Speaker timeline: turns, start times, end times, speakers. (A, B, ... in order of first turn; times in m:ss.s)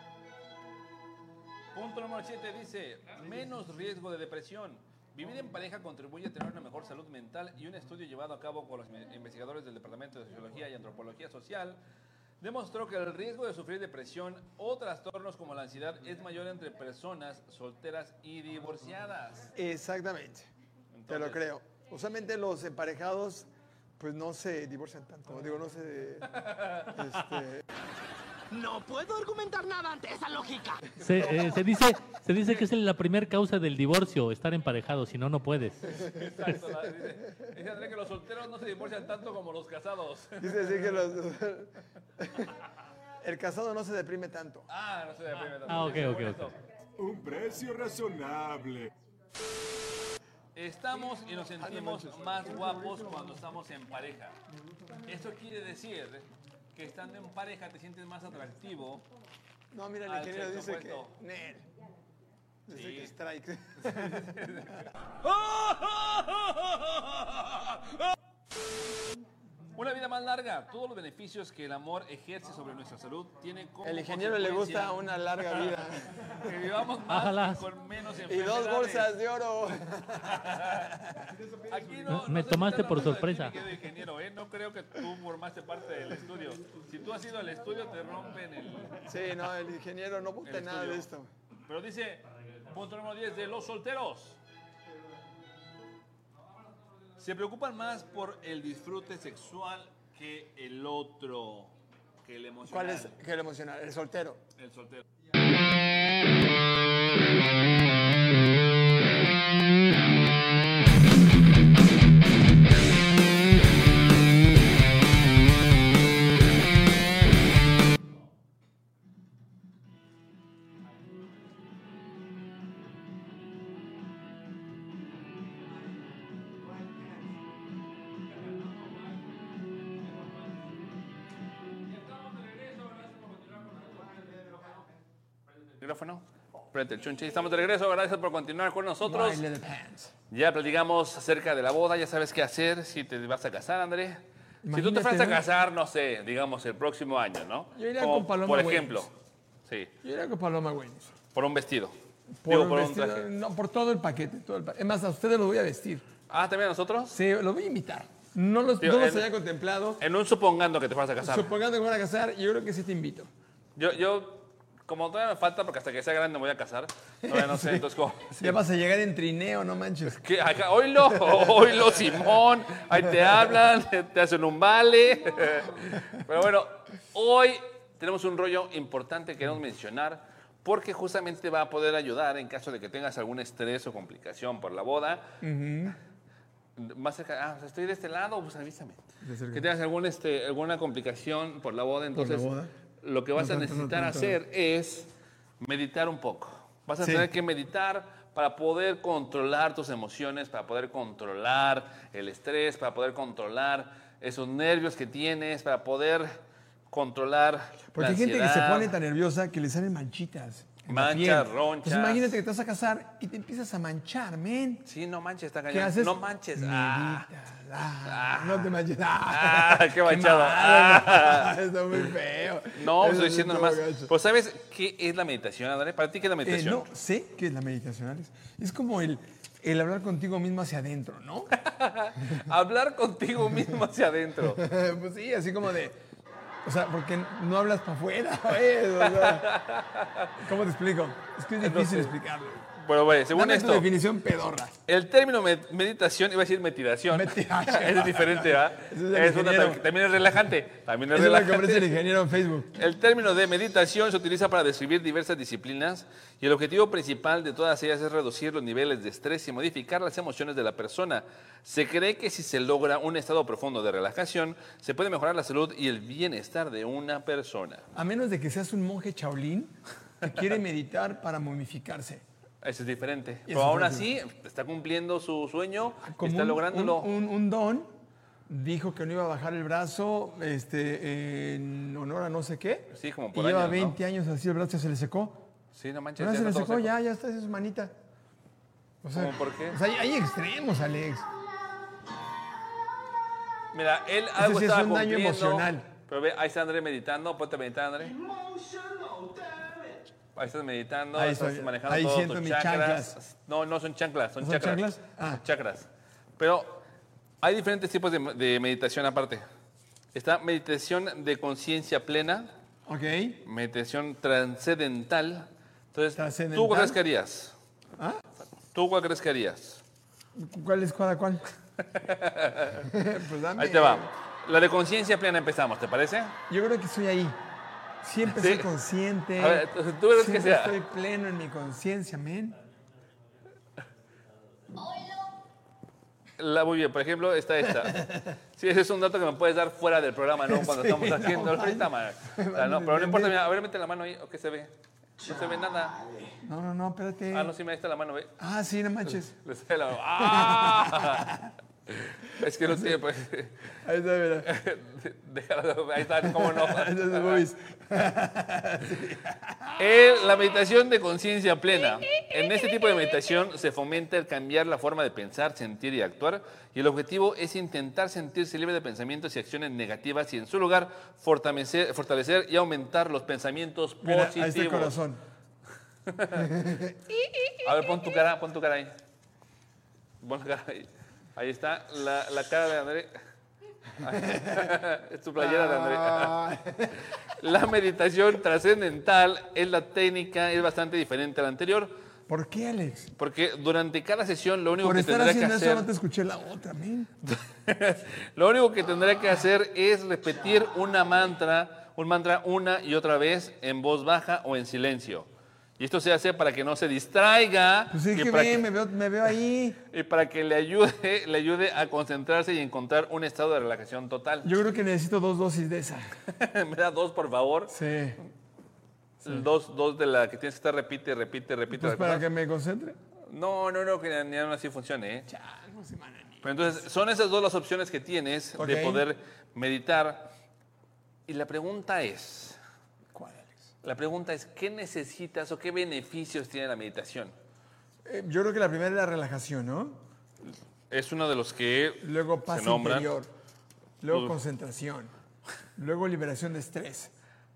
0:01.7-0:11.8 A
0:12.4-0:19.5 A
0:19.5-0:20.5 B
0:20.9-0:21.4 A
0:21.1-0:26.3 B
0:26.3-0:26.9 A
0:26.8-0:27.6 B
0:28.5-0:30.9 C
0:31.0-0:36.0 D
0:36.0-0:40.9 A
0:40.4-0:42.6 B
0:43.2-0:44.7 B
0:44.7-0:46.6 A
0:45.7-0:46.5 D
0:47.0-0:48.9 E
0:50.5-0:54.4 A
0:51.6-0:53.3 B
0:55.0-0:59.1 A
0:59.7-1:01.7 B
1:00.0-1:01.1 A
1:02.6-1:04.7 B
1:02.7-1:03.1 A
1:03.9-1:08.0 A
1:09.7-1:15.7 A
1:13.8-1:16.5 B
1:16.4-1:19.1 A
1:17.1-1:17.6 D
1:18.2-1:21.4 B
1:20.3-1:20.9 A
1:21.7-1:29.1 A
1:22.1-1:23.5 D
1:29.0-1:31.3 B
1:30.4-1:31.1 A
1:31.6-1:34.4 A
1:37.2-1:43.2 A
1:42.6-1:44.4 B
1:44.6-1:45.0 A
2:06.7-2:07.3 B
2:11.9-2:14.1 A
2:15.6-2:19.4 A
2:19.0-2:20.1 B
2:20.3-2:29.1 A
2:24.6-2:25.4 B
2:27.7-2:29.1 B
2:29.6-2:29.9 A
2:30.0-2:31.1 B
2:31.3-2:31.9 A
2:32.4-2:36.0 B
2:32.4-2:33.3 A
2:36.3-2:37.2 A
2:37.1-2:40.0 B
2:38.8-2:39.3 A
2:40.0-2:41.5 A
2:41.2-2:43.3 B
2:43.8-2:48.6 A
2:47.2-2:47.8 B
2:48.4-2:50.2 B
2:50.1-3:05.4 A
2:51.1-2:52.1 B
3:05.4-3:06.0 B
3:06.8-3:26.4 A
3:09.2-3:09.6 B
3:12.1-3:12.7 B
3:13.4-3:14.4 B
3:17.0-3:17.3 B
3:26.9-3:28.9 A
3:27.9-3:34.8 B
3:30.9-3:32.4 A
3:34.8-3:37.3 A
3:35.7-3:44.1 B
3:38.0-3:38.7 A
3:39.3-3:41.5 A
3:42.7-3:46.9 A
3:46.4-3:51.5 B
3:51.5-3:54.6 A
3:52.2-3:52.5 B
3:54.4-3:56.0 B
3:56.6-3:59.5 B
3:59.0-4:00.4 A
4:00.4-4:02.7 B
4:01.6-4:02.2 A
4:02.8-4:03.9 A
4:03.3-4:04.8 B
4:04.9-4:12.0 A
4:07.1-4:09.8 B
4:11.1-4:12.7 B
4:12.7-4:27.9 A
4:27.9-4:32.2 B
4:32.6-4:37.1 A
4:33.5-4:34.1 B
4:36.0-4:37.9 B
4:38.5-4:45.4 B
4:42.9-4:44.0 A
4:45.7-4:46.9 A
4:46.2-4:47.9 B
4:49.0-4:51.3 B
4:49.1-4:49.8 A
4:53.7-4:58.2 A
4:54.4-4:55.9 B
5:00.4-5:06.8 A
5:01.1-5:03.2 B
5:04.4-5:05.4 B
5:07.4-5:09.4 A
5:10.1-5:12.5 A
5:12.8-5:13.4 B
5:13.4-5:17.5 A
5:16.1-5:17.0 B
5:18.0-5:18.2 B
5:18.7-5:19.8 A
5:20.3-5:21.4 B
5:21.8-5:22.9 A
5:22.8-5:24.1 B
5:23.6-5:26.4 A
5:26.5-5:27.4 B
5:28.0-5:32.6 B
5:28.2-5:28.7 A
5:29.4-5:30.8 A
5:36.4-5:46.0 A
5:37.8-5:38.2 B
5:40.4-5:43.4 B
5:46.4-5:47.5 B
5:47.3-5:48.4 A
5:48.4-5:49.3 B
5:49.3-5:51.3 A
5:50.2-5:51.5 B
5:51.9-5:53.7 A
5:52.4-5:53.0 B
5:53.8-5:54.5 B
5:54.4-5:57.5 A
5:56.1-5:59.9 B
5:59.8-6:14.9 A
6:14.0-6:15.2 B
6:16.1-6:16.5 A
6:16.3-6:17.0 B
6:17.6-6:19.0 A
6:20.2-6:23.2 A
6:24.0-6:26.5 A
6:24.0-6:24.7 B
6:25.4-6:27.0 B
6:27.2-6:31.9 A
6:32.3-6:33.1 B
6:33.2-6:35.9 A
6:34.8-6:37.1 B
6:37.2-6:48.7 A
6:47.9-6:49.8 B
6:49.8-6:54.5 A
6:54.4-6:56.2 B
6:56.2-6:57.8 A
6:57.7-6:58.2 B
6:59.2-7:02.3 A
7:01.7-7:03.0 B
7:03.2-7:05.3 A
7:05.3-7:06.8 B
7:06.4-7:10.3 A
7:08.6-7:09.0 B
7:11.3-7:12.6 A
7:13.1-7:13.7 B
7:13.8-7:17.3 A
7:18.0-7:20.0 B
7:20.9-7:23.1 A
7:22.0-7:23.3 B
7:24.0-7:25.1 B
7:24.1-7:24.4 A
7:25.8-7:27.1 B